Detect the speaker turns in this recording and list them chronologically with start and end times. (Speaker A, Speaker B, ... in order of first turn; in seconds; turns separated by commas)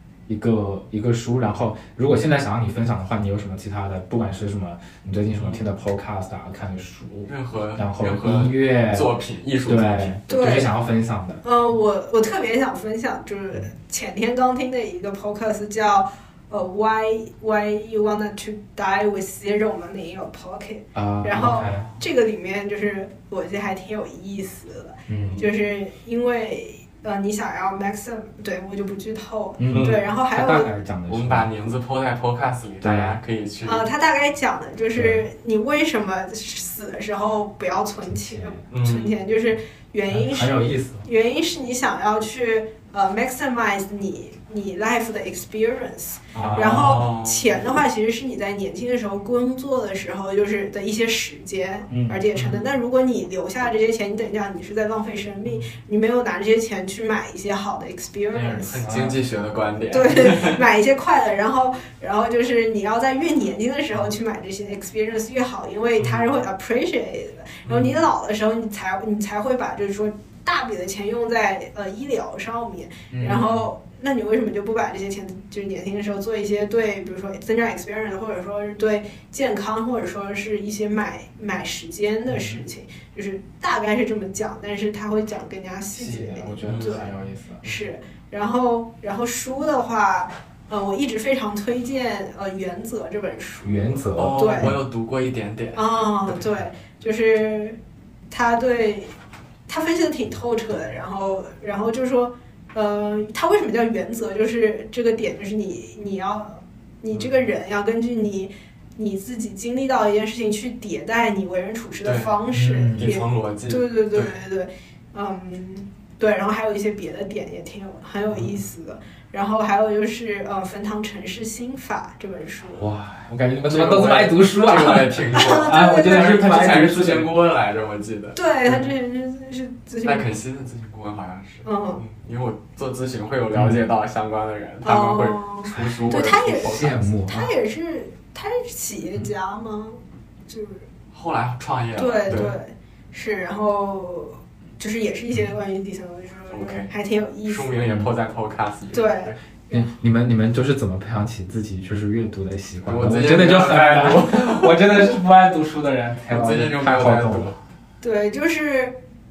Speaker A: 0.3-9.1, Speaker B: 5.3-5.7, Speaker B: 7.2-10.2, Speaker A: 9.7-11.4, Speaker C: 10.3-10.7, Speaker C: 11.4-30.7, Speaker A: 20.9-21.9, Speaker B: 21.7-22.0, Speaker A: 25.1-25.5, Speaker B: 25.2-25.5, Speaker A: 29.6-31.5, Speaker B: 29.7-30.0, Speaker B: 31.1-33.9, Speaker A: 32.8-33.1, Speaker C: 33.6-58.8, Speaker A: 34.9-35.2, Speaker A: 38.1-38.6, Speaker B: 38.7-39.1, Speaker A: 40.1-41.1, Speaker A: 46.3-47.0, Speaker B: 46.3-47.6, Speaker A: 51.9-52.6, Speaker A: 58.3-59.1, Speaker B: 58.7-60.6, Speaker C: 59.9-94.7, Speaker A: 67.7-68.0, Speaker A: 73.1-73.7, Speaker A: 82.3-82.6, Speaker A: 85.9-87.6, Speaker B: 86.6-87.0, Speaker A: 93.6-94.8, Speaker B: 94.2-96.4, Speaker C: 95.7-97.8, Speaker C: 98.3-99.1, Speaker C: 99.7-122.8, Speaker B: 112.0-112.4, Speaker A: 112.5-113.1, Speaker B: 113.0-114.4, Speaker A: 122.8-127.3, Speaker B: 123.6-128.9, Speaker C: 125.3-126.6, Speaker C: 128.3-130.3, Speaker B: 130.0-137.1, Speaker C: 131.6-132.0, Speaker A: 133.5-133.8, Speaker C: 134.8-140.8, Speaker A: 136.5-137.5, Speaker B: 141.1-142.6, Speaker C: 141.9-147.8, Speaker B: 146.5-146.9, Speaker B: 147.4-149.2, Speaker A: 147.8-148.1, Speaker C: 148.9-149.9, Speaker A: 149.7-157.6, Speaker B: 152.8-154.9, Speaker B: 156.3-157.6, Speaker C: 158.0-159.0